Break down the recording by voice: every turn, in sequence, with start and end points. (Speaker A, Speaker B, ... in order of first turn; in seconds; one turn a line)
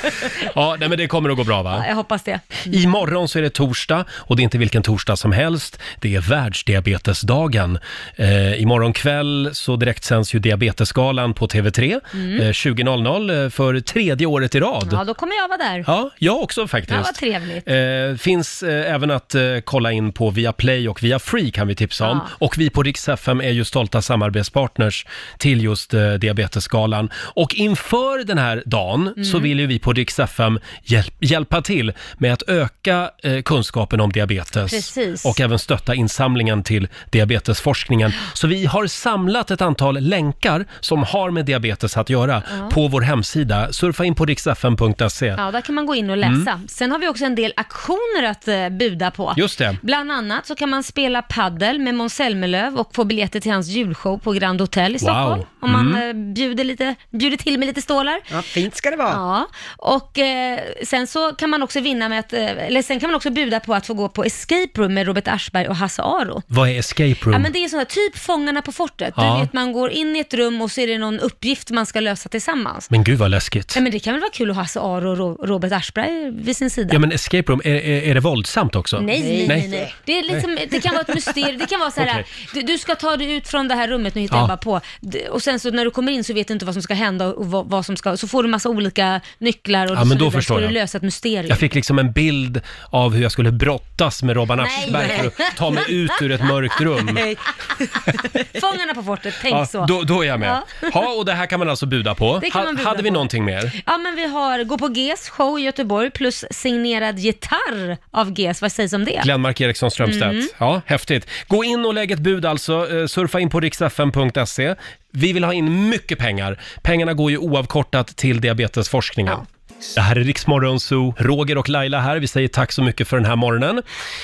Speaker A: 0.2-1.9
Speaker B: 1.7-2.8
Speaker A: 2.7-15.0
Speaker B: 12.1-12.5
Speaker B: 14.8-15.9
Speaker A: 15.9-45.4
Speaker B: 16.9-17.7
Speaker B: 22.0-22.3
Speaker B: 29.2-29.5
Speaker B: 34.7-35.4
Speaker B: 42.5-42.8
Speaker B: 45.4-58.2
Speaker A: 46.2-46.5
Speaker A: 49.4-49.8
Speaker A: 55.0-56.0
Speaker C: 58.3-59.2
Speaker B: 59.1-66.4
Speaker A: 66.5-67.5
Speaker B: 67.3-72.9
Speaker A: 69.2-69.5
Speaker A: 72.9-73.8
Speaker B: 73.7-77.0
Speaker A: 76.9-80.5
Speaker B: 79.0-91.6
Speaker C: 79.1-79.9
Speaker A: 82.0-82.3
Speaker A: 89.9-90.8
Speaker A: 91.5-97.2
Speaker B: 94.6-95.9
Speaker C: 97.1-97.9
Speaker B: 98.5-100.9
Speaker A: 99.5-103.7
Speaker B: 102.4-109.3
Speaker A: 109.2-119.4
Speaker B: 110.0-110.5
Speaker A: 120.0-123.8